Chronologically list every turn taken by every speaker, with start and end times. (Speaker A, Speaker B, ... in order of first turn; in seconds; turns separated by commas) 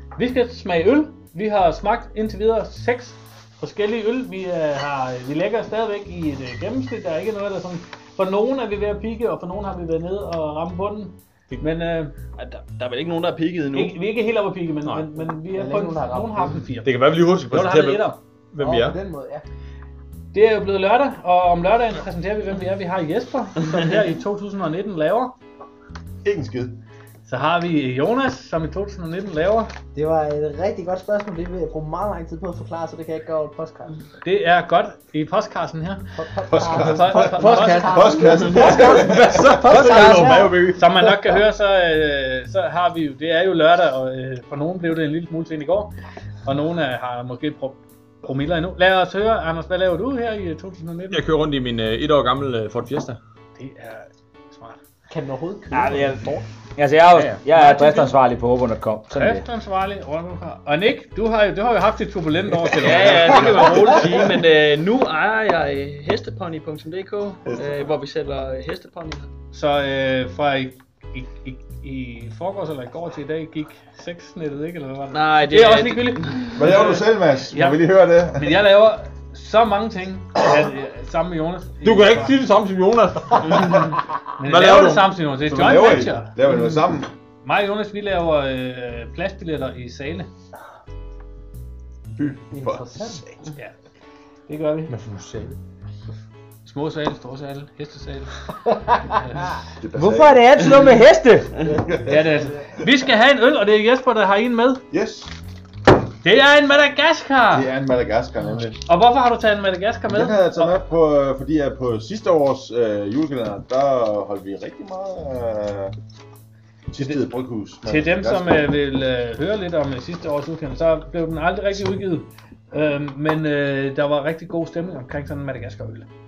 Speaker A: 0.1-12.1, Speaker B: 12.4-14.0, Speaker A: 13.7-18.2, Speaker C: 15.5-16.6, Speaker D: 16.8-19.0, Speaker C: 18.6-19.4, Speaker A: 20.3-25.3, Speaker E: 26.2-26.8, Speaker A: 27.2-29.7, Speaker C: 29.9-34.0, Speaker A: 34.2-36.1, Speaker C: 36.2-39.1, Speaker E: 36.5-39.7, Speaker A: 36.7-38.3, Speaker D: 38.5-40.8, Speaker C: 39.6-40.7, Speaker B: 39.7-40.7, Speaker A: 40.7-45.9, Speaker A: 46.5-51.2, Speaker D: 51.1-53.2, Speaker A: 53.5-54.8, Speaker C: 55.1-56.4, Speaker F: 55.7-59.5, Speaker A: 57.1-58.1, Speaker A: 59.1-64.2, Speaker B: 62.8-69.3, Speaker E: 63.2-63.8, Speaker E: 67.4-67.8, Speaker A: 69.5-77.8, Speaker B: 75.1-76.7, Speaker E: 76.5-78.6, Speaker A: 78.3-82.4, Speaker D: 81.8-85.2, Speaker A: 83.5-86.7, Speaker E: 85.4-87.1, Speaker A: 87.4-90.3, Speaker E: 92.1-93.3, Speaker C: 92.5-93.2, Speaker A: 94.5-94.9, Speaker D: 94.9-95.6, Speaker A: 96.6-98.3, Speaker A: 99.0-99.6, Speaker E: 99.8-100.5, Speaker F: 99.9-101.5, Speaker E: 101.8-102.3, Speaker A: 102.0-104.8, Speaker E: 104.9-105.3, Speaker A: 106.2-107.7, Speaker E: 107.5-108.8, Speaker A: 108.8-110.7, Speaker E: 110.1-115.9, Speaker E: 116.9-118.7, Speaker A: 117.8-126.1